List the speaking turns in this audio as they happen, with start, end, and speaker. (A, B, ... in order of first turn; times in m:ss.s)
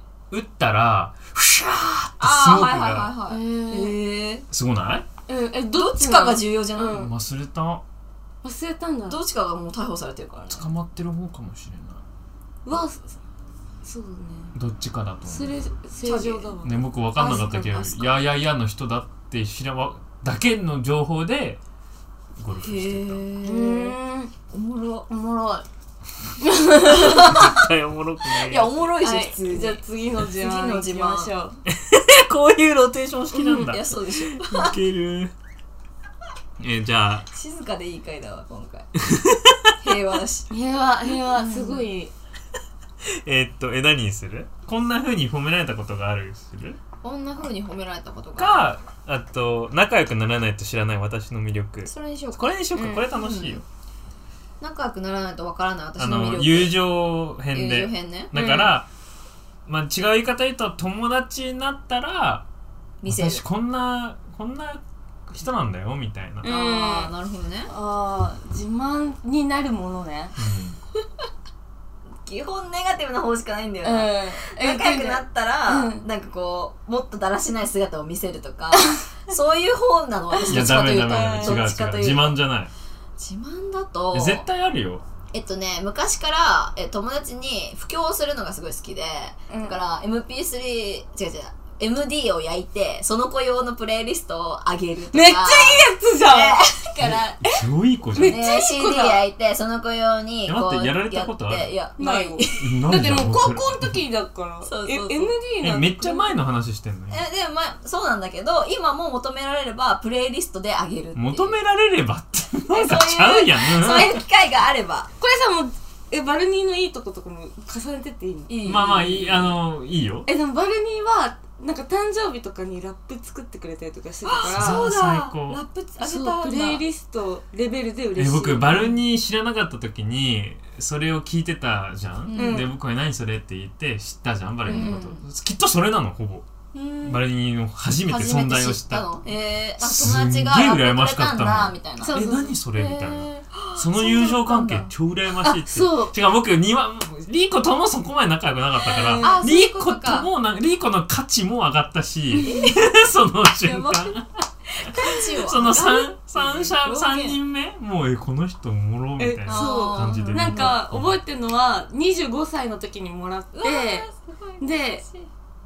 0:00.3-0:03.1 A
0:02.2-0:04.4 B
0:03.3-0:04.0 C
0:04.5-0:05.0 A
0:05.3-0:07.1 C
0:05.7-0:07.1 B
0:06.9-0:07.8 A
0:08.4-0:09.2 C
0:09.1-0:10.7 B
0:10.5-0:12.0 A
0:12.6-0:13.1 C
0:13.8-0:14.5 C
0:14.5-0:15.6 A
0:15.2-0:18.1 C
0:16.0-0:16.5 B
0:16.6-0:21.6 A
0:22.4-0:23.2 A
0:22.6-0:24.0 B
0:23.4-0:24.3 C
0:24.5-0:25.1 B
0:25.1-0:25.6 C
0:26.5-0:27.2 C
0:26.8-0:27.6 B
0:26.9-0:28.9 A
0:28.4-0:29.8 B
0:29.0-0:31.6 C
0:30.4-0:31.3 B
0:31.6-0:35.3 A
0:33.3-0:33.8 C
0:33.6-0:34.7 B
0:36.6-0:37.3 A
0:37.3-0:38.9 B
0:39.0-0:39.7 A
0:39.8-0:40.5 B
0:40.5-0:42.1 C
0:41.3-0:41.8 B
0:43.0-0:46.8 A
0:47.0-0:48.7 B
0:48.4-0:53.6 A
0:51.8-0:52.5 B
0:52.7-0:53.1 C
0:53.1-0:53.6 B
0:54.6-0:56.8 B
0:56.0-0:58.9 A
0:57.5-0:58.3 B
0:58.3-0:58.7 C
0:59.7-1:02.4 A
1:03.0-1:03.4 B
1:03.1-1:06.5 A
1:06.4-1:07.1 C
1:06.4-1:07.7 B
1:07.7-1:10.3 C
1:10.4-1:10.8 A
1:12.2-1:22.4 B
1:13.8-1:16.0 C
1:20.4-1:21.6 C
1:20.5-1:22.7 A
1:23.2-1:24.4 B
1:24.1-1:25.0 A
1:25.3-1:37.4 B
1:29.5-1:29.8 C
1:35.1-1:36.6 C
1:37.0-1:38.4 A
1:37.4-1:39.2 C
1:38.2-1:42.8 B
1:40.4-1:41.7 A
1:42.0-1:46.3 C
1:42.6-1:44.0 A
1:44.6-1:45.3 B
1:45.6-1:47.2 A
1:47.1-1:51.6 B
1:51.1-1:54.2 A
1:52.7-1:55.1 B
1:53.9-1:54.2 C
1:55.2-1:59.0 C
1:58.5-1:59.5 B
1:58.6-2:00.3 A
2:00.2-2:04.9 C
2:04.2-2:06.8 B
2:04.5-2:05.6 A
2:06.0-2:09.0 C
2:08.2-2:16.4 A
2:12.2-2:12.7 B
2:12.4-2:12.7 C
2:14.6-2:15.2 B
2:14.6-2:15.1 C
2:16.7-2:17.2 B
2:17.0-2:19.0 A
2:18.0-2:24.9 B
2:19.8-2:34.3 A
2:22.0-2:22.6 C
2:25.4-2:26.1 C
2:28.8-2:29.4 C
2:29.2-2:30.3 B
2:32.3-2:32.7 C
2:32.4-2:32.8 B
2:33.6-2:37.4 B
2:35.1-2:41.1 A
2:39.2-2:44.0 C
2:39.5-2:40.8 B
2:43.5-2:45.3 B
2:44.6-2:45.0 C